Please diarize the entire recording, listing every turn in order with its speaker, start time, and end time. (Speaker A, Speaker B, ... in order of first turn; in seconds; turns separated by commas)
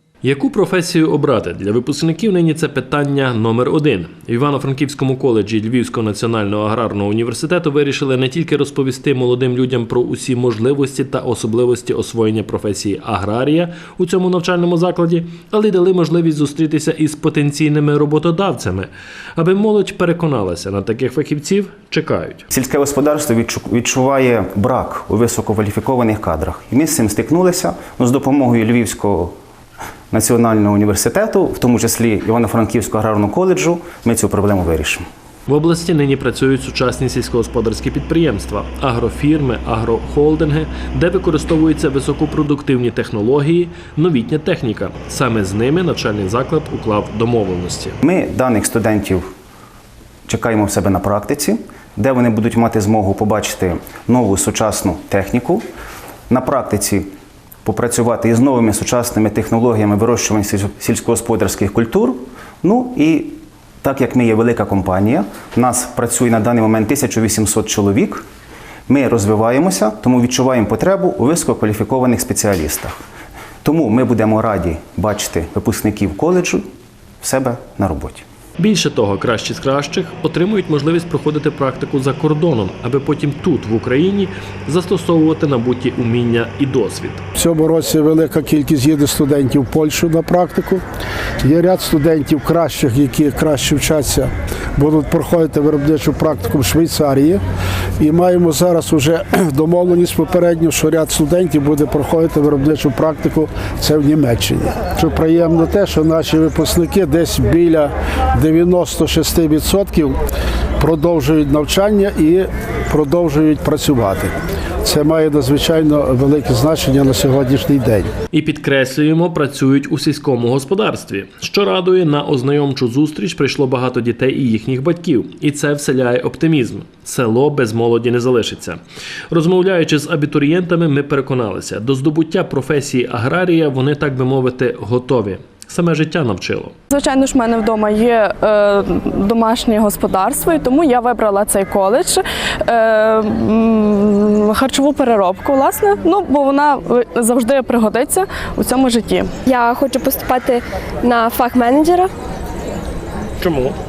Speaker A: 0.2-22.4, Speaker B: 22.5-29.3, Speaker B: 30.1-35.0, Speaker A: 35.5-48.0, Speaker B: 48.0-49.2, Speaker B: 50.3-55.6, Speaker B: 56.3-57.1, Speaker B: 57.6-68.2, Speaker B: 68.9-73.0, Speaker B: 73.6-76.6, Speaker B: 77.2-78.2, Speaker A: 78.6-87.2, Speaker C: 87.3-90.8, Speaker C: 91.4-97.4, Speaker C: 98.0-110.2, Speaker C: 110.8-114.3, Speaker C: 114.8-118.1, Speaker A: 118.3-136.7, Speaker D: 136.9-149.3, Speaker E: 149.4-152.1, Speaker A: 153.4-153.8